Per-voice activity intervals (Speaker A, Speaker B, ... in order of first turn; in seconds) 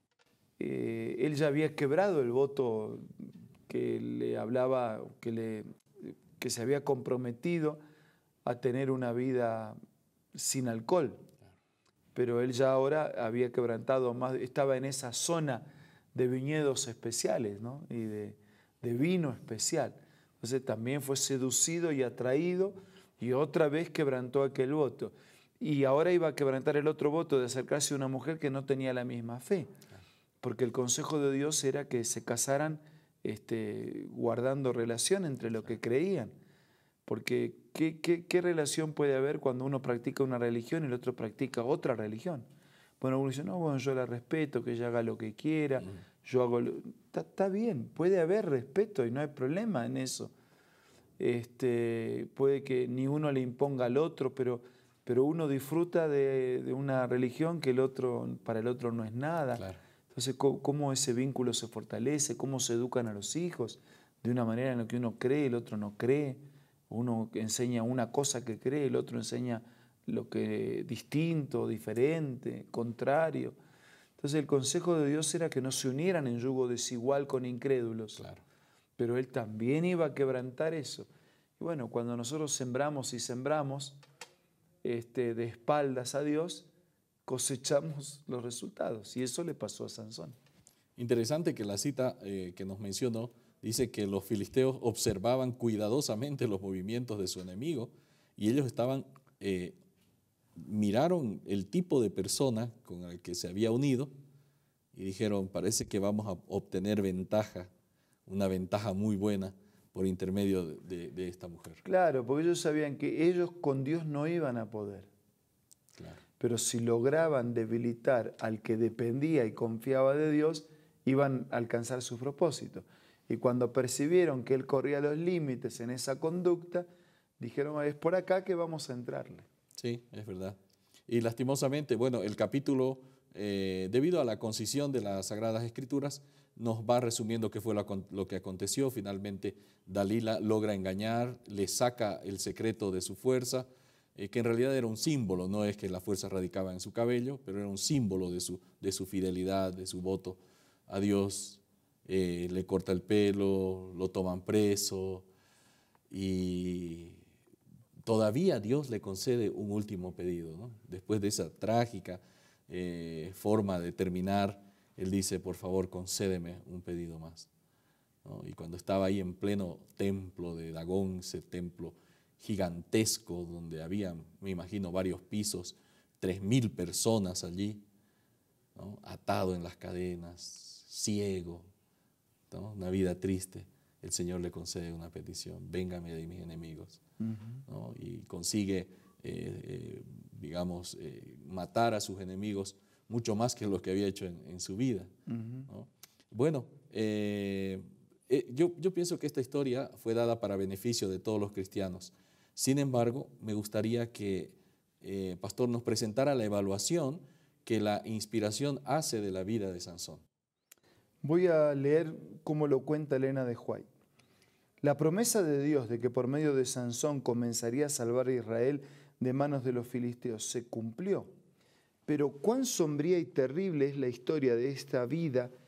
Speaker A: 0.6-7.8, 8.4-9.8, 10.3-11.2, 12.1-29.7, 30.4-36.4, 37.1-42.5, 43.0-50.3, 51.2-73.5, 74.2-78.2, 79.0-81.1, 81.6-84.0, 84.8-86.7, 87.2-90.3, 111.8-115.1, 116.4-126.9, 127.4-129.4, 187.2-187.6, 195.3-195.7, 211.2-213.9, 214.8-221.3, 222.1-225.5
Speaker B: 59.5-59.8, 78.2-78.4, 91.0-99.8, 100.6-104.1, 104.9-107.7, 108.3-111.8, 115.9-116.2, 129.8-155.3, 156.1-157.2, 158.0-167.5, 168.2-177.8, 178.7-181.7, 182.5-187.0, 187.7-195.1, 195.7-210.2